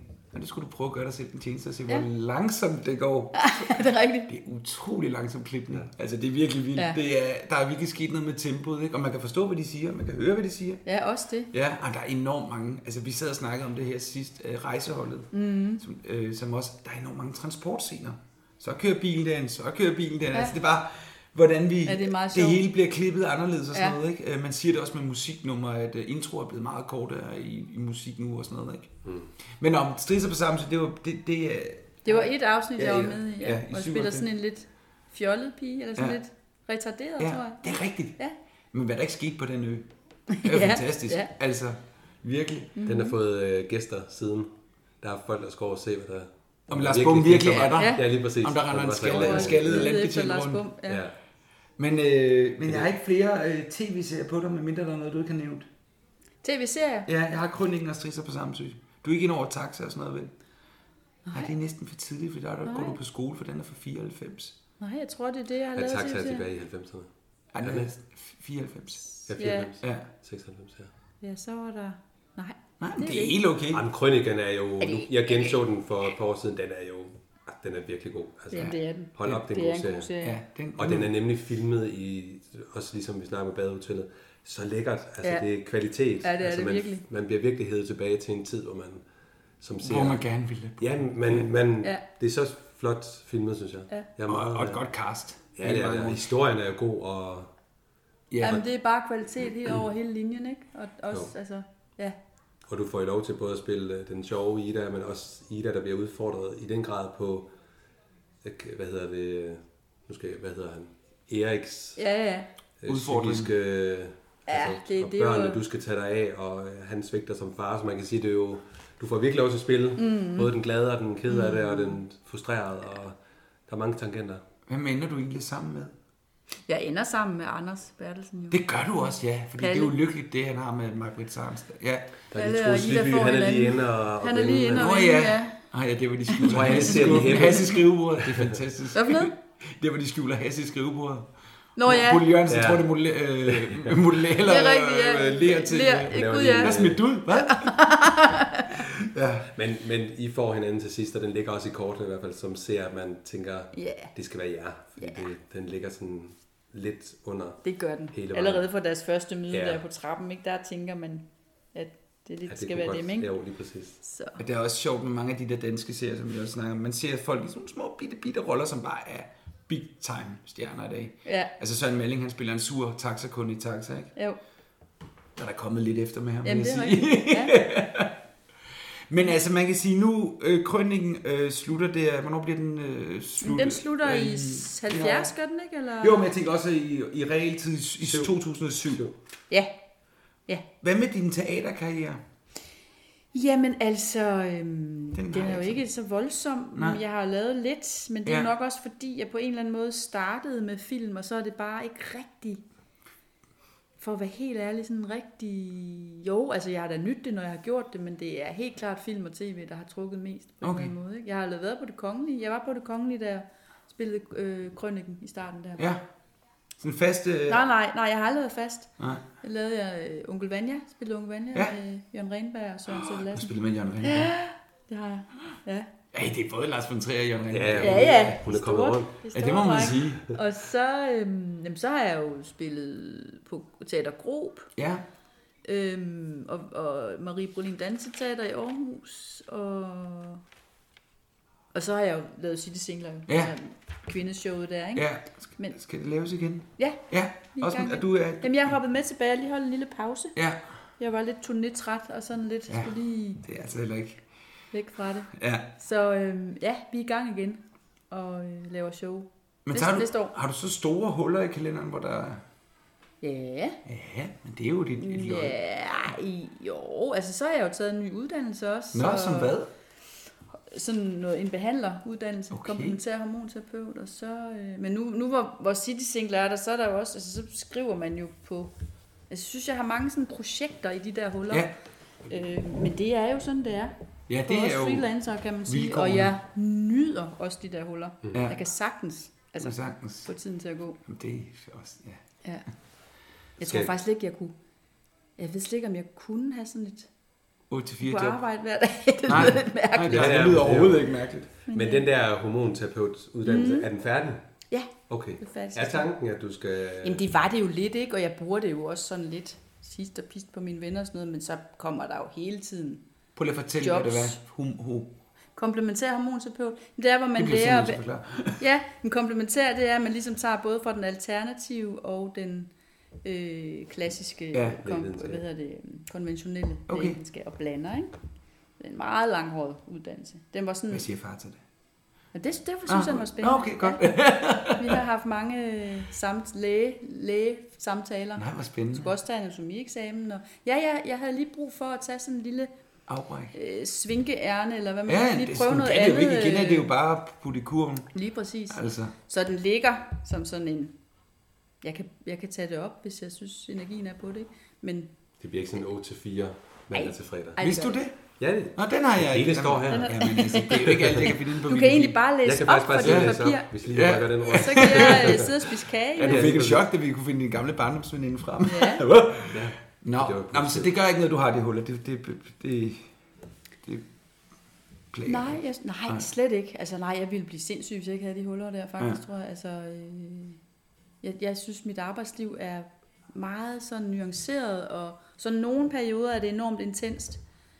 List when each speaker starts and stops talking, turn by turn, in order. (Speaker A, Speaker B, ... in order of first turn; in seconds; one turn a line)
Speaker A: 0.3-10.8
Speaker B: 3.4-4.3
Speaker B: 10.8-11.5
Speaker A: 11.5-28.9
Speaker B: 15.3-15.8
Speaker B: 21.9-22.6
Speaker A: 29.6-34.3
Speaker B: 32.0-38.4
Speaker A: 37.2-38.2
Speaker A: 38.7-39.9
Speaker B: 40.3-41.3
Speaker A: 40.4-42.8
Speaker B: 42.8-43.1
Speaker C: 42.9-44.5
Speaker C: 45.0-50.0
Speaker A: 46.7-50.7
Speaker B: 47.8-48.0
Speaker B: 49.0-51.0
Speaker C: 50.9-51.1
Speaker A: 51.8-55.7
Speaker B: 56.4-57.1
Speaker A: 57.1-60.3
Speaker B: 61.3-61.5
Speaker A: 61.3-64.6
Speaker B: 62.6-63.0
Speaker B: 64.8-66.5
Speaker C: 65.8-67.1
Speaker A: 67.5-69.0
Speaker C: 67.6-67.9
Speaker B: 69.2-69.7
Speaker C: 69.3-70.9
Speaker A: 69.8-70.1
Speaker B: 71.2-73.4
Speaker A: 72.8-73.8
Speaker C: 73.7-80.1
Speaker B: 74.8-75.6
Speaker B: 78.5-80.4
Speaker A: 80.2-81.1
Speaker C: 80.8-89.0
Speaker B: 86.2-87.0
Speaker C: 89.6-90.2
Speaker A: 89.8-91.5
Speaker C: 90.8-94.8
Speaker A: 94.3-96.2
Speaker C: 95.6-97.5
Speaker A: 98.3-98.6
Speaker B: 98.4-102.2
Speaker C: 102.7-107.5
Speaker C: 108.4-112.0
Speaker B: 112.0-112.5
Speaker C: 112.8-123.2
Speaker A: 112.9-113.5
Speaker B: 114.5-115.6
Speaker B: 120.0-120.5
Speaker B: 121.3-122.0
Speaker C: 123.7-124.4
Speaker A: 124.7-125.9
Speaker B: 126.7-130.0
Speaker A: 128.5-132.2
Speaker C: 132.3-135.0
Speaker B: 132.3-135.6
Speaker A: 134.8-141.3
Speaker B: 136.3-137.8
Speaker C: 136.4-138.6
Speaker B: 138.9-139.3
Speaker B: 141.8-142.3
Speaker A: 141.8-147.8
Speaker C: 142.5-142.9
Speaker C: 143.4-144.3
Speaker B: 144.4-148.8
Speaker C: 146.1-147.0
Speaker A: 148.8-149.5
Speaker C: 149.5-158.7
Speaker B: 153.7-154.1
Speaker B: 155.0-155.3
Speaker B: 157.6-163.3
Speaker C: 159.5-159.8
Speaker C: 162.5-164.0
Speaker B: 164.0-164.4
Speaker A: 164.4-174.1
Speaker B: 171.2-171.5
Speaker A: 175.4-178.2
Speaker B: 176.4-177.6
Speaker A: 179.1-185.3
Speaker B: 183.4-186.2
Speaker A: 186.0-189.0
Speaker C: 188.1-188.3
Speaker C: 188.8-189.1
Speaker A: 190.8-192.2
Speaker B: 193.3-202.6
Speaker A: 195.1-195.8
Speaker A: 196.8-197.0
Speaker A: 198.3-198.5
Speaker B: 204.0-215.8
Speaker A: 210.6-210.9
Speaker A: 215.8-216.0
Speaker A: 216.8-217.7
Speaker B: 217.5-225.9
Speaker A: 219.0-219.2
Speaker A: 222.9-224.3
Speaker A: 226.1-228.4
Speaker C: 227.5-229.2
Speaker B: 227.8-234.7
Speaker A: 229.3-230.2
Speaker A: 234.8-235.1
Speaker B: 235.7-240.4
Speaker B: 241.7-245.8
Speaker A: 243.3-243.5
Speaker A: 244.9-248.7
Speaker B: 246.8-250.4
Speaker A: 250.3-250.6
Speaker B: 251.0-253.4
Speaker A: 252.7-254.2
Speaker B: 254.7-260.3
Speaker A: 255.3-255.7
Speaker A: 259.7-262.4
Speaker B: 263.2-263.8
Speaker A: 263.9-265.6
Speaker B: 265.0-269.6
Speaker A: 268.9-269.7
Speaker B: 270.7-278.7
Speaker A: 272.5-273.0
Speaker B: 279.3-281.7
Speaker B: 282.3-291.0
Speaker A: 284.3-285.1
Speaker A: 285.7-286.4
Speaker A: 288.3-288.6
Speaker A: 289.6-290.3
Speaker A: 291.1-292.2
Speaker B: 293.6-294.6
Speaker C: 293.6-293.9
Speaker B: 295.4-297.1
Speaker A: 297.7-298.4
Speaker B: 298.0-300.4
Speaker A: 299.3-301.5
Speaker C: 300.1-304.4
Speaker B: 301.7-302.1
Speaker B: 303.4-303.9
Speaker B: 304.7-306.1
Speaker C: 305.1-307.3
Speaker B: 307.0-313.0
Speaker A: 313.4-315.1
Speaker B: 313.8-314.4
Speaker B: 315.6-318.0
Speaker A: 317.4-318.7
Speaker B: 318.6-322.7
Speaker B: 323.2-328.1
Speaker A: 324.5-324.8
Speaker C: 324.8-325.4
Speaker A: 326.9-327.2
Speaker B: 328.8-331.1
Speaker A: 330.9-331.6
Speaker B: 332.3-334.1
Speaker A: 332.9-335.0
Speaker B: 334.7-342.7
Speaker A: 338.4-339.1
Speaker A: 343.1-343.5
Speaker B: 343.5-346.9
Speaker A: 345.1-348.1
Speaker B: 348.1-351.0
Speaker A: 348.7-349.1
Speaker B: 351.8-355.1
Speaker C: 355.4-357.6
Speaker B: 356.9-358.0
Speaker A: 357.6-358.2
Speaker C: 358.4-361.3
Speaker A: 358.8-362.2
Speaker B: 359.9-363.7
Speaker C: 362.4-366.9
Speaker A: 363.0-365.5
Speaker B: 364.5-366.6
Speaker A: 366.2-373.0
Speaker B: 368.6-369.1
Speaker C: 369.5-370.9
Speaker A: 375.1-376.2
Speaker B: 375.2-380.6
Speaker B: 381.2-387.4